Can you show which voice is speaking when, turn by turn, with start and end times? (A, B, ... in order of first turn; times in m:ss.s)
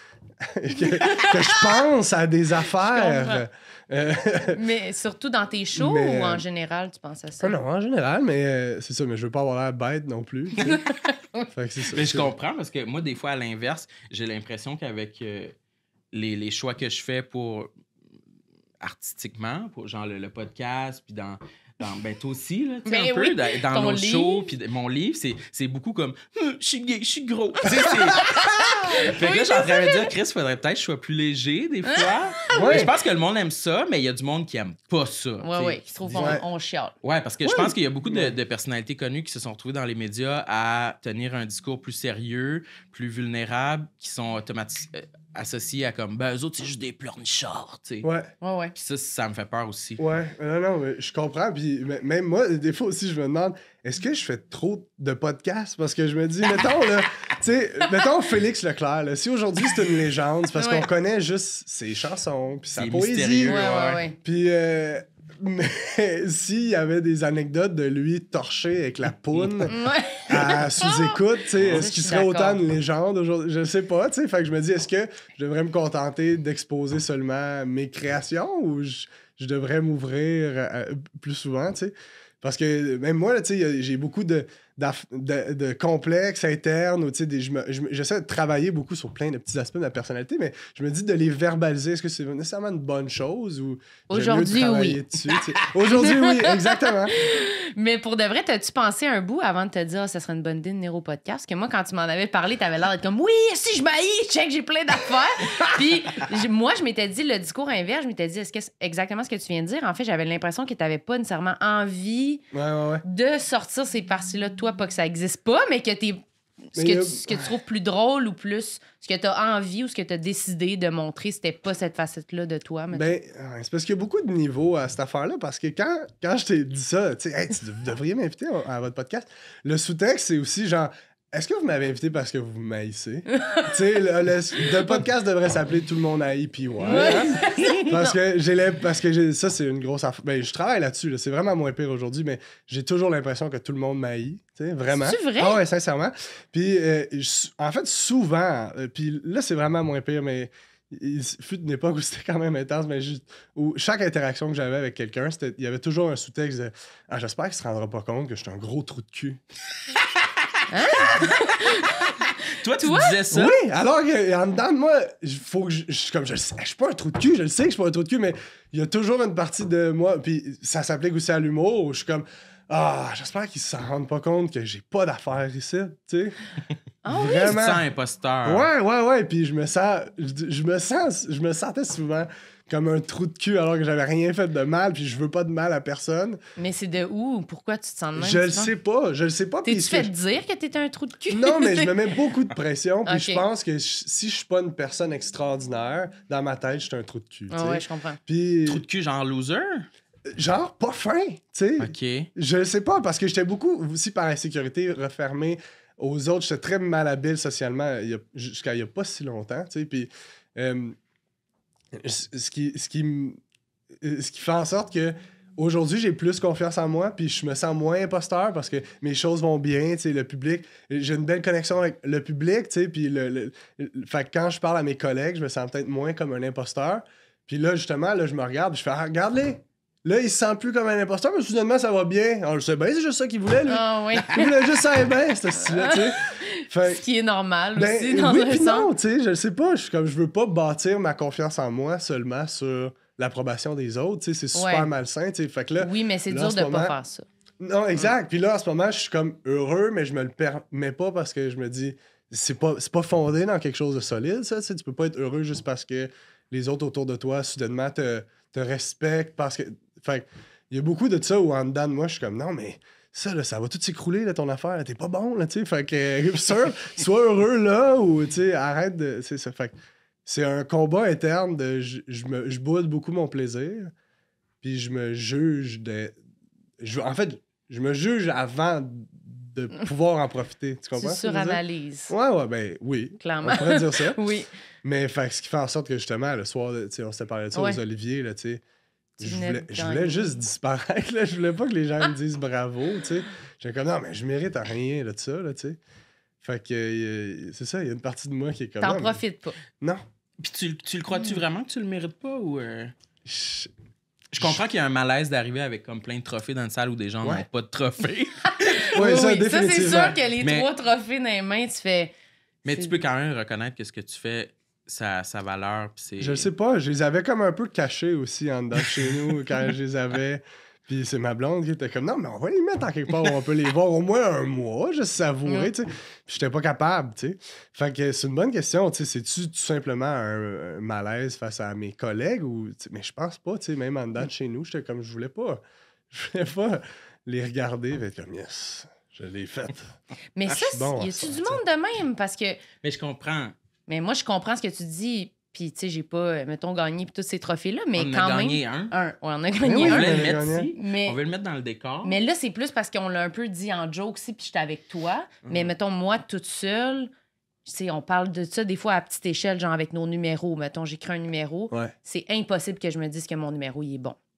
0:00.4-0:04.6 A
0:00.8-0:01.8 B
0:02.7-0:03.4 B
0:04.5-0:07.5 B
0:05.8-0:06.4 A
0:07.4-0:10.7 A
0:10.6-0:11.5 B
0:11.5-0:12.3 A
0:11.9-0:15.6 C
0:16.1-0:17.7 C
0:18.8-0:36.4 C
0:22.9-0:24.5 B
0:27.8-0:30.1 B
0:31.9-0:32.8 B
0:32.5-0:32.9 A
0:35.4-0:36.9 B
0:36.2-0:36.4 A
0:37.0-0:48.1 C
0:37.4-0:38.4 A
0:48.0-0:48.3 A
0:48.4-0:48.7 B
0:48.8-0:50.0 C
0:50.0-1:03.6 A
1:00.6-1:00.9 B
1:02.8-1:04.0 C
1:03.4-1:04.2 B
1:04.2-1:09.8 A
1:09.4-1:09.7 C
1:09.7-1:12.6 B
1:10.3-1:37.2 A
1:11.6-1:11.9 C
1:34.1-1:52.4 B
1:52.5-1:53.0 A
1:53.0-1:56.2 B
1:56.7-2:03.1 B
1:56.8-1:57.5 A
2:02.9-2:39.4 A
2:13.3-2:13.7 B
2:16.8-2:18.2 B
2:24.9-2:25.6 B
2:40.7-2:43.2 B
2:41.0-2:41.3 C
2:42.6-2:43.6 C
2:43.3-2:56.4 A
2:57.0-2:57.6 B
2:57.1-2:57.8 A
2:57.3-2:58.7 C
2:58.4-3:06.4 A
3:06.6-3:08.7 B
3:08.2-3:10.1 A
3:09.6-3:12.0 B
3:11.3-3:18.8 A
3:13.1-3:13.4 B
3:17.5-3:18.2 B
3:18.7-3:19.9 C
3:20.3-3:31.0 A
3:21.8-3:22.3 C
3:31.9-3:33.4 A
3:34.0-3:57.0 A
3:53.7-3:54.6 B
3:55.7-3:58.9 B
3:57.8-4:07.0 A
4:04.5-4:04.9 B
4:05.8-4:07.3 B
4:07.6-4:29.8 A
4:30.3-4:33.9 A
4:34.6-4:36.2 A
4:36.8-4:44.2 A
4:41.0-4:42.1 B
4:43.2-4:44.5 B
4:44.8-4:48.6 A
4:47.5-4:47.8 B
4:49.2-4:55.8 A
4:49.2-4:50.4 B
4:56.4-4:59.2 A
4:58.8-4:59.6 B
5:00.4-5:02.9 C
5:03.3-5:03.7 A
5:04.3-5:09.0 C
5:08.5-5:12.1 B
5:09.0-5:10.2 A
5:10.2-5:10.7 C
5:12.6-5:16.5 C
5:16.2-5:40.0 A
5:40.4-5:42.6 B
5:40.5-5:41.6 A
5:42.8-5:43.6 C
5:43.9-5:51.2 B
5:48.0-5:48.9 C
5:49.6-5:50.7 A
5:49.8-5:52.2 C
5:52.0-5:57.1 B
5:57.7-6:04.2 B